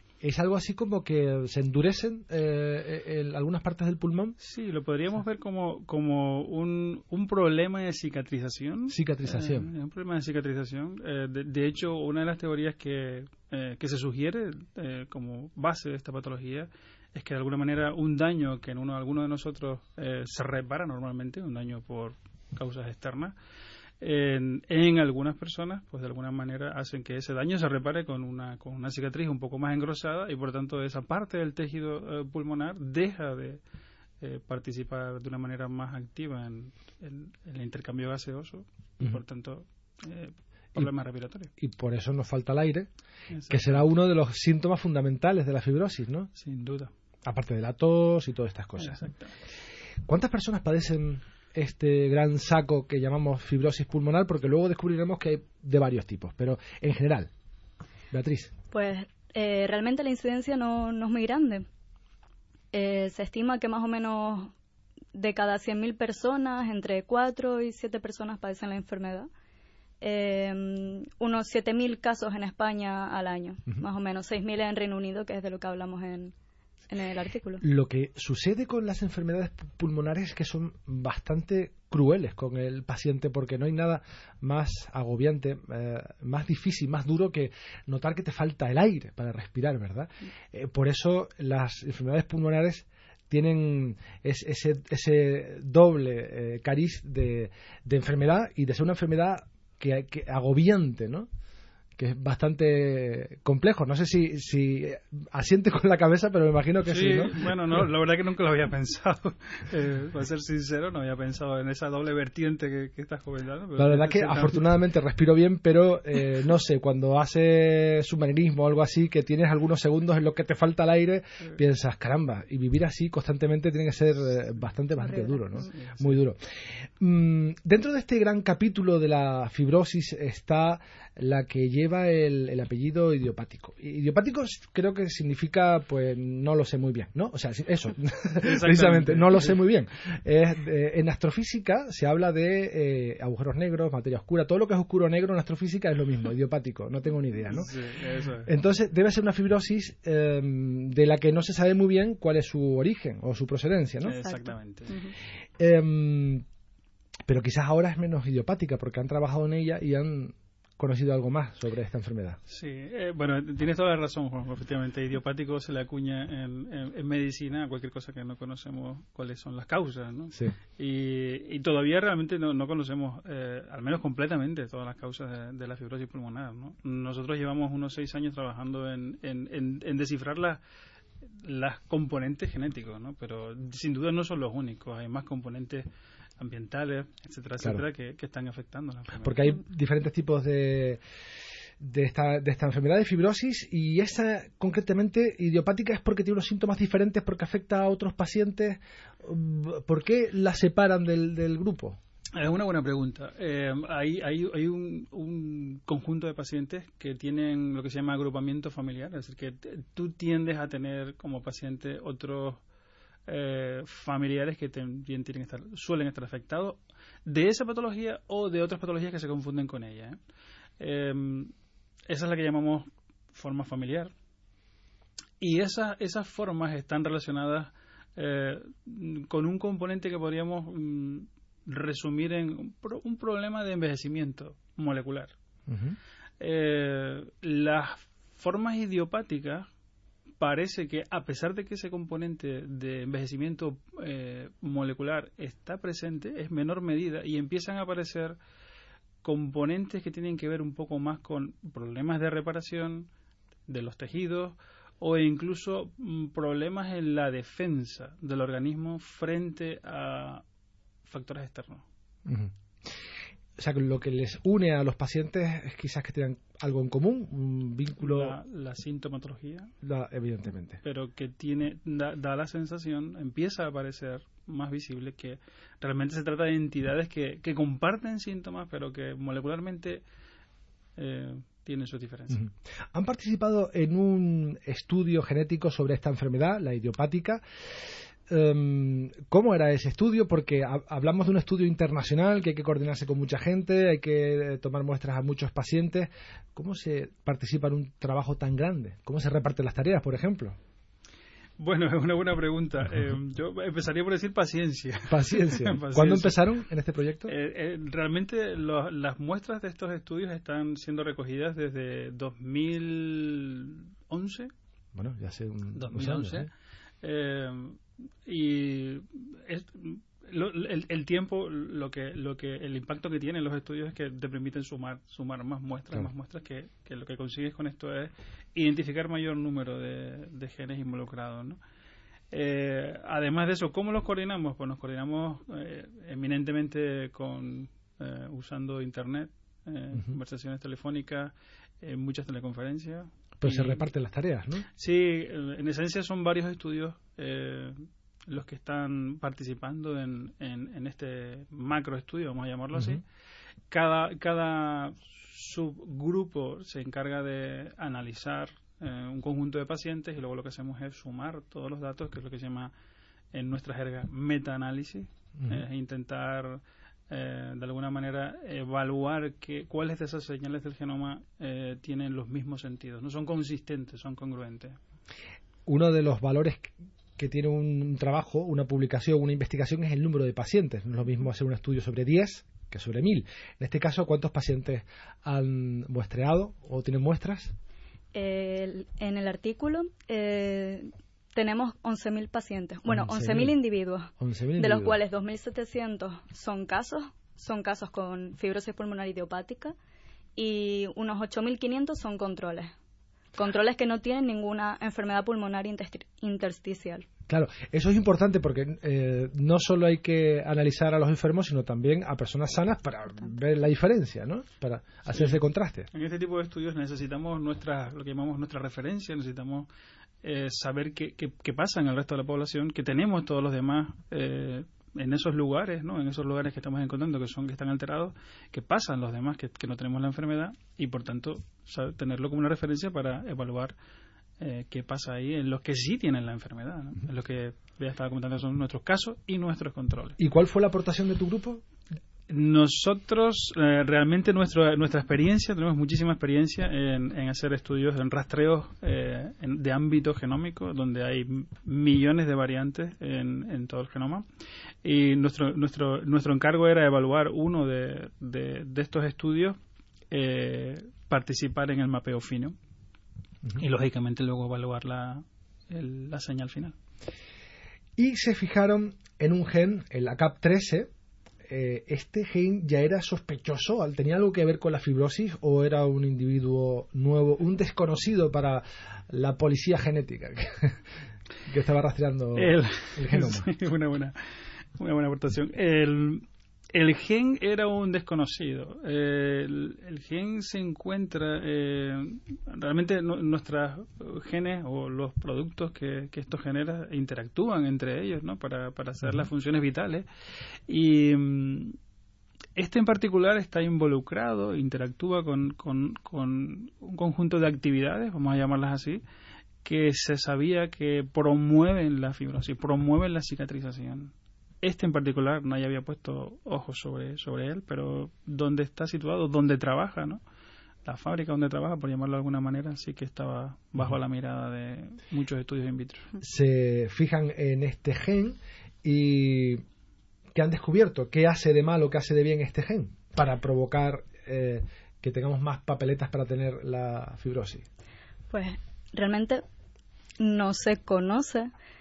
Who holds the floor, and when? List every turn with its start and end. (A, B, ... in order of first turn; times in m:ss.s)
0:00.2-0:04.3 A
0:04.4-0:23.4 B
0:08.9-0:09.7 A
0:24.0-0:33.6 B
0:34.2-0:41.5 B
0:41.6-0:42.9 A
0:43.3-0:43.8 B
0:43.5-0:46.3 A
0:46.4-0:46.9 B
0:47.2-0:49.0 A
0:48.8-0:49.3 B
0:50.0-0:57.3 A
0:58.1-0:58.5 A
0:58.7-1:01.6 C
1:02.7-1:04.5 C
1:05.1-1:09.3 C
1:10.0-1:16.3 C
1:16.9-1:17.6 C
1:17.6-1:41.3 A
1:42.0-1:47.4 A
1:46.8-1:54.7 B
1:53.8-2:06.4 A
2:05.1-2:05.4 C
2:05.7-2:06.2 B
2:07.0-2:27.7 A
2:18.4-2:19.6 B
2:27.5-2:28.5 B
2:28.4-2:34.2 A
2:34.0-2:35.0 B
2:34.2-2:35.1 C
2:35.6-2:36.4 A
2:37.3-2:42.4 A
2:42.5-3:00.6 B
3:01.2-3:05.9 B
3:06.4-3:09.5 B
3:09.2-3:11.0 A
3:11.8-3:22.0 A
3:22.4-3:32.6 B
3:33.3-3:40.2 B
3:40.8-3:41.5 B
3:42.1-3:44.1 B
3:45.4-3:55.3 B
3:55.7-3:56.0 A
3:56.4-3:59.7 B
4:00.4-4:08.4 B
4:09.2-4:13.1 B
4:13.7-4:20.4 B
4:21.0-4:21.8 B
4:22.2-4:22.5 A
4:23.6-4:28.4 A
4:28.0-4:29.7 B
4:29.8-4:30.8 A
4:30.8-4:40.0 B
4:41.0-4:42.4 B
4:42.3-4:47.4 A
4:48.3-5:00.6 A
5:01.6-5:06.4 B
5:05.1-5:07.3 A
5:07.3-5:14.5 B
5:14.9-5:16.5 A
5:15.7-5:16.5 B
5:17.0-5:31.6 B
5:32.3-5:43.9 B
5:43.4-5:44.7 A
5:44.7-5:53.0 B
5:52.7-5:53.0 A
5:53.7-6:02.7 B
6:03.3-6:14.8 B
6:15.7-6:27.5 A
6:28.1-6:39.7 C
6:32.9-6:33.6 A
6:34.2-6:35.0 A
6:40.4-6:42.7 C
6:43.4-6:47.0 C
6:47.3-6:55.9 A
6:55.1-6:55.4 B
6:55.9-6:59.7 B
7:00.2-7:13.8 B
7:14.4-7:20.2 B
7:20.2-7:21.6 A
7:22.3-7:34.2 B
7:34.8-7:39.6 B
7:40.1-7:42.6 B
7:43.6-7:46.8 B
7:48.0-7:50.9 A
7:51.5-8:00.8 A
8:01.5-8:03.5 A
8:02.4-8:04.2 B
8:04.8-8:20.0 B
8:20.7-8:21.8 B
8:22.6-8:29.0 B
8:29.6-8:40.2 B
8:40.8-8:46.1 B
8:46.2-8:49.6 A
8:50.3-8:57.6 A
8:58.3-8:59.4 C
9:00.2-9:01.5 C